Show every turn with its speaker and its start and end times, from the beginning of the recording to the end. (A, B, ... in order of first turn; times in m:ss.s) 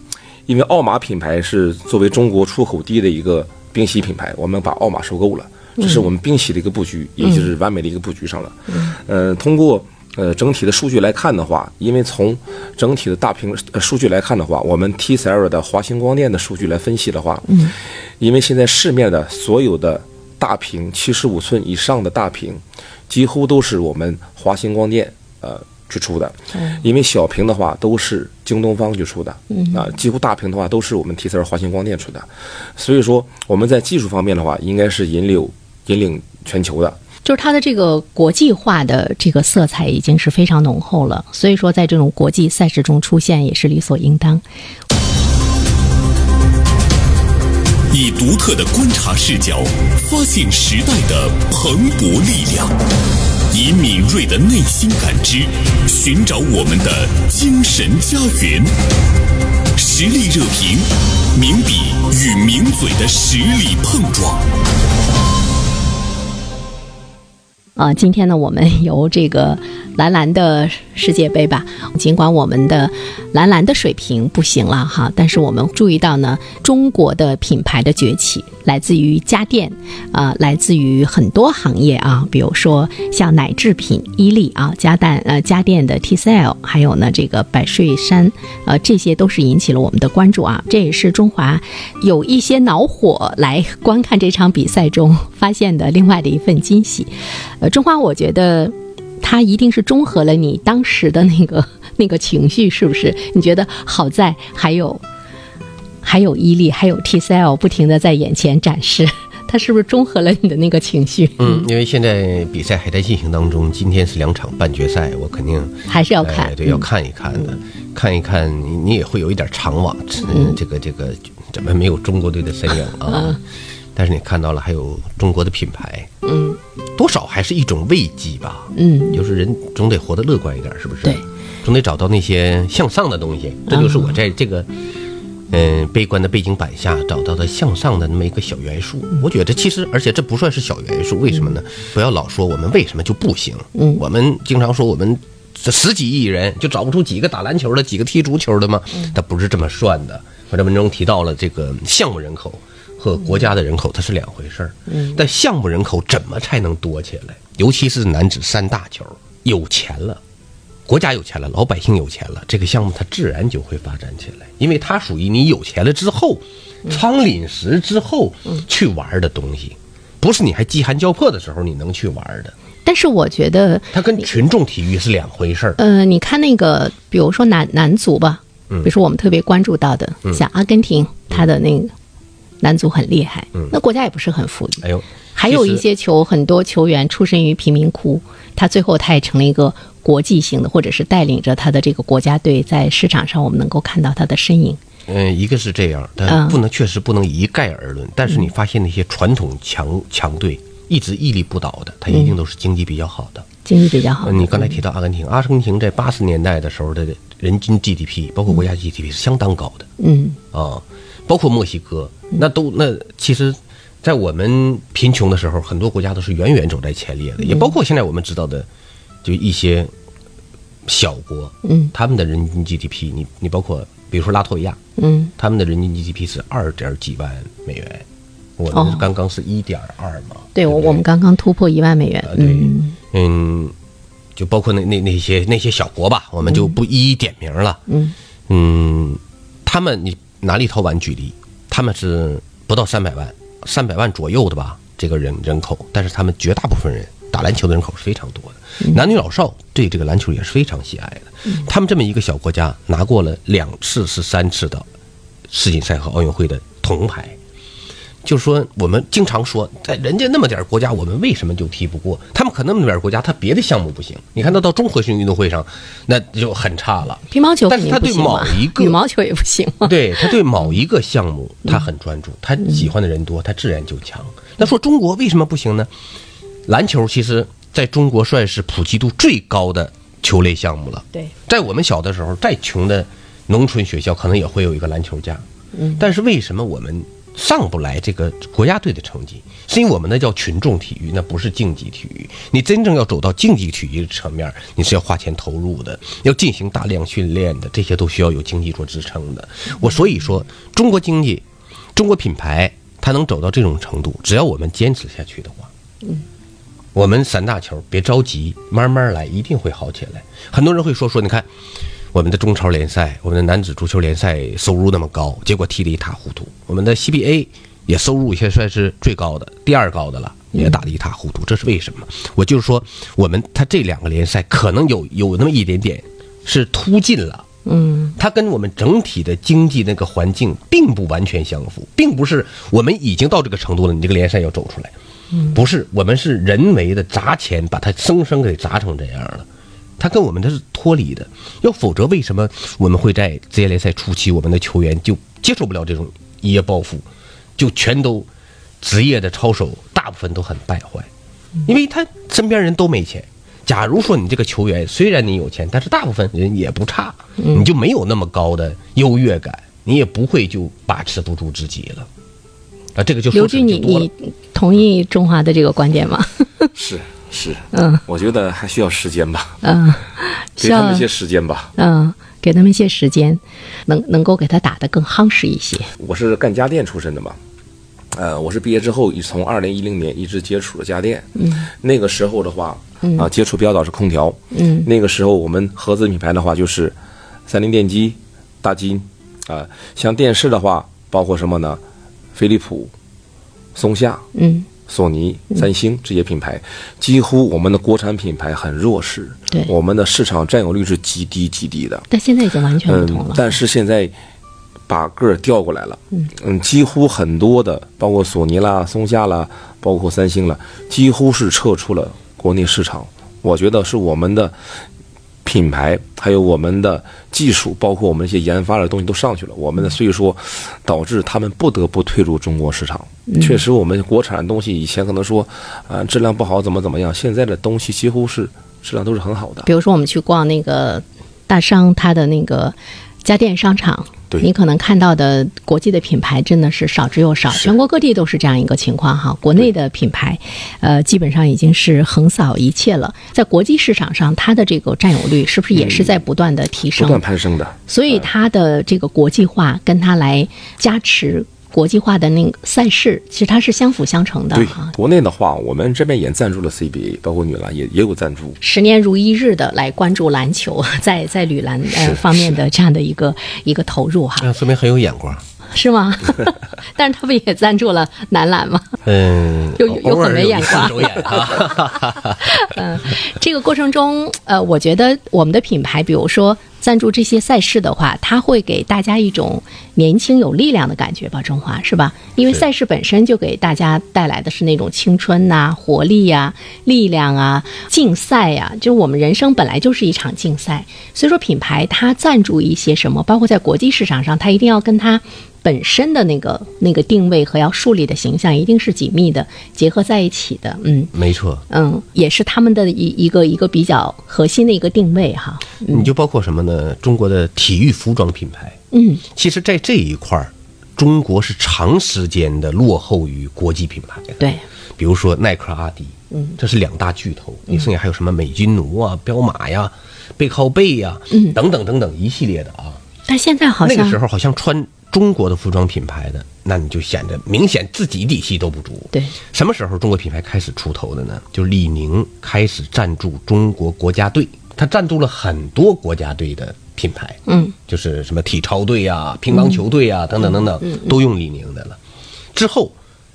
0:00.5-0:37.0 A
0:07.2-0:07.5 B
0:17.5-0:17.7 B
0:29.5-0:29.8 B
0:37.2-0:44.4 B
0:47.9-0:52.7 C
0:53.5-0:58.7 C
0:59.8-1:04.4 C
1:07.8-1:45.0 B
1:46.0-1:51.6 B
1:51.4-2:03.4 D
1:55.9-1:56.8 B
2:00.3-2:00.6 B
2:03.1-2:03.4 B
2:03.9-2:06.1 D
2:06.2-2:06.6 B
2:07.0-2:14.7 D
2:08.7-2:09.2 B
2:13.7-2:14.1 B
2:15.5-2:40.2 D
2:23.7-2:24.0 B
2:34.9-2:35.2 B
2:40.9-2:52.5 D
2:52.8-2:54.0 B
2:53.9-2:55.8 D
2:55.8-3:01.9 B
3:02.6-3:04.8 B
3:04.8-3:05.8 D
3:05.4-3:14.8 B
3:15.1-3:23.5 D
3:16.3-3:16.6 B
3:22.1-3:22.3 B
3:23.6-3:24.8 B
3:24.2-3:29.9 D
3:30.0-3:30.4 B
3:30.5-3:38.7 D
3:37.4-3:37.7 B
3:39.2-3:39.9 D
3:40.8-3:44.8 D
3:41.6-3:41.9 B
3:45.0-3:45.3 B
3:45.4-3:48.0 D
3:48.6-3:51.0 D
3:48.7-3:49.1 B
3:50.5-3:53.0 B
3:52.2-3:53.7 D
3:54.4-3:57.8 D
3:56.4-3:56.7 B
3:57.9-3:58.1 B
3:58.5-4:14.9 D
4:15.5-4:17.4 D
4:18.2-4:29.0 D
4:27.3-4:30.3 B
4:29.8-4:35.9 D
4:36.6-4:45.4 D
4:45.7-4:46.0 B
4:46.0-5:01.4 D
5:02.0-5:05.7 D
5:06.9-5:11.5 D
5:12.1-5:27.4 D
5:27.6-5:28.1 B
5:28.1-5:34.9 D
5:35.5-5:39.4 D
5:40.0-5:47.0 D
5:47.6-5:48.3 D
5:48.8-5:51.1 D
5:51.6-6:02.1 D
5:57.4-5:57.6 B
6:02.9-6:04.1 D
6:03.3-6:06.7 B
6:06.8-6:09.6 A
6:07.7-6:08.0 B
6:09.6-6:11.0 B
6:10.6-6:11.7 A
6:11.8-6:15.9 B
6:16.0-6:17.4 A
6:18.1-6:26.9 A
6:21.4-6:21.7 B
6:24.5-6:24.9 B
6:27.5-6:31.8 A
6:32.3-6:32.9 A
6:33.7-6:34.3 A
6:34.3-6:34.7 B
6:34.9-6:42.0 A
6:42.1-6:43.5 B
6:42.8-6:44.1 A
6:44.9-6:54.6 A
6:55.4-7:09.7 A
7:03.3-7:03.6 B
7:09.6-7:27.2 B
7:25.7-7:26.2 A
7:27.0-7:28.2 A
7:27.9-7:34.9 B
7:34.5-7:38.6 A
7:38.6-7:44.5 B
7:44.4-7:45.4 D
7:45.7-7:48.9 B
7:49.0-7:52.6 D
7:49.8-8:21.1 B
8:21.1-8:21.6 D
8:21.7-8:26.1 B
8:25.9-8:34.4 D
8:28.9-8:29.2 B
8:35.0-8:43.0 D
8:41.3-8:41.6 B
8:43.3-8:44.2 B
8:43.8-9:02.0 D
8:57.5-8:57.7 B
9:00.8-9:01.1 B
9:02.5-9:02.9 D